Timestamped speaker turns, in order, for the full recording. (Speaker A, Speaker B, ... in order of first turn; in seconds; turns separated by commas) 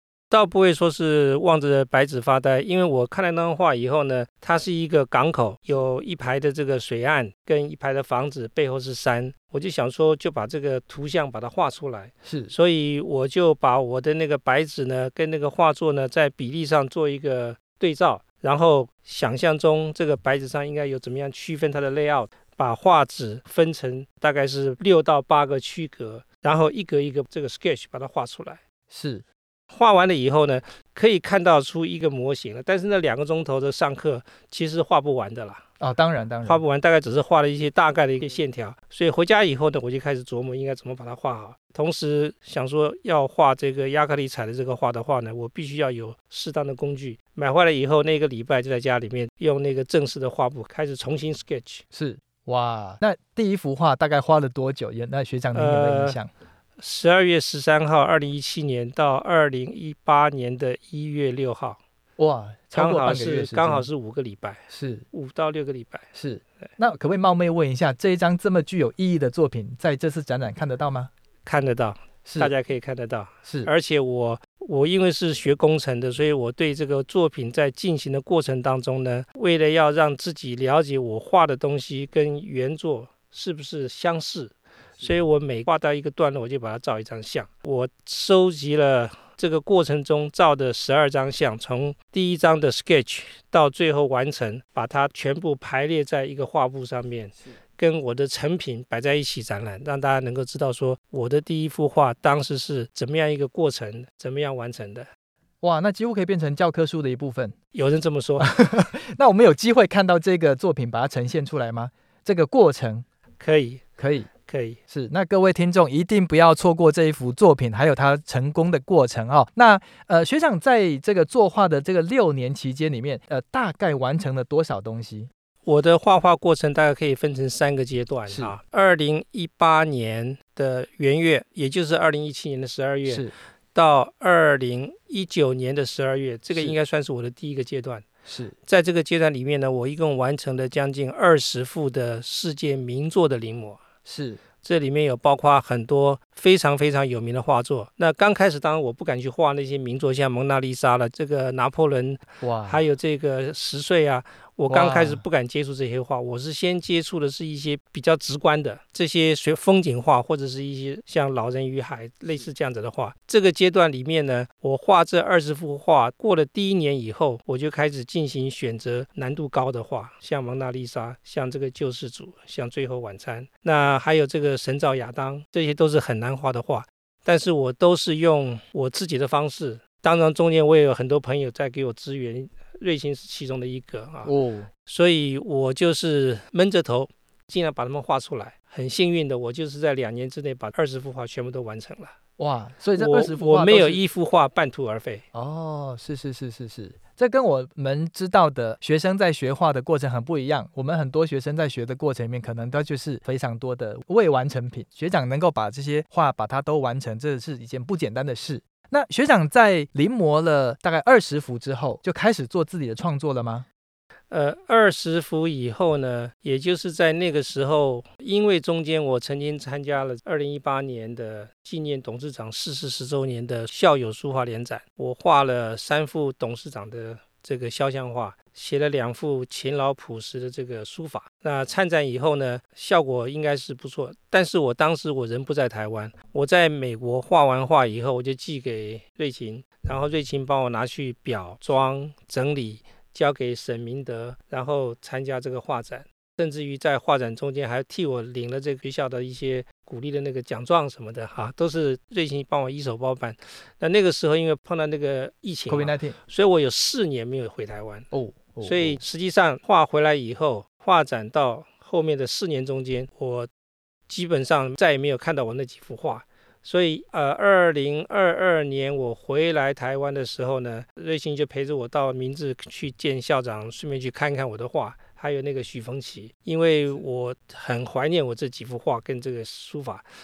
Speaker A: 0.3-28.6, Speaker B: 12.2-12.5, Speaker B: 28.9-29.2, Speaker A: 29.7-35.6, Speaker B: 35.8-36.6, Speaker A: 36.5-51.8, Speaker B: 51.9-56.3, Speaker A: 55.5-56.2, Speaker A: 56.8-61.8, Speaker B: 62.2-63.9, Speaker A: 62.7-66.1, Speaker B: 64.7-65.0, Speaker B: 66.2-71.1, Speaker A: 71.5-105.1, Speaker B: 72.2-72.5, Speaker B: 105.6-107.5, Speaker A: 107.7-108.5, Speaker B: 108.4-113.0, Speaker A: 113.4-113.8, Speaker B: 114.0-114.3, Speaker A: 114.5-114.8, Speaker B: 114.9-125.3, Speaker A: 125.6-138.0, Speaker B: 128.3-128.5, Speaker B: 133.1-133.3, Speaker B: 138.3-138.5, Speaker A: 138.7-143.8, Speaker B: 144.1-144.4, Speaker A: 144.6-184.3, Speaker B: 152.4-152.8, Speaker B: 154.7-155.2, Speaker B: 184.2-184.7, Speaker A: 184.9-192.1, Speaker B: 192.4-194.0, Speaker A: 193.0-195.2, Speaker B: 195.3-213.7, Speaker A: 214.3-258.1, Speaker B: 255.7-256.2, Speaker B: 258.1-259.0, Speaker A: 258.6-263.5, Speaker A: 264.1-280.0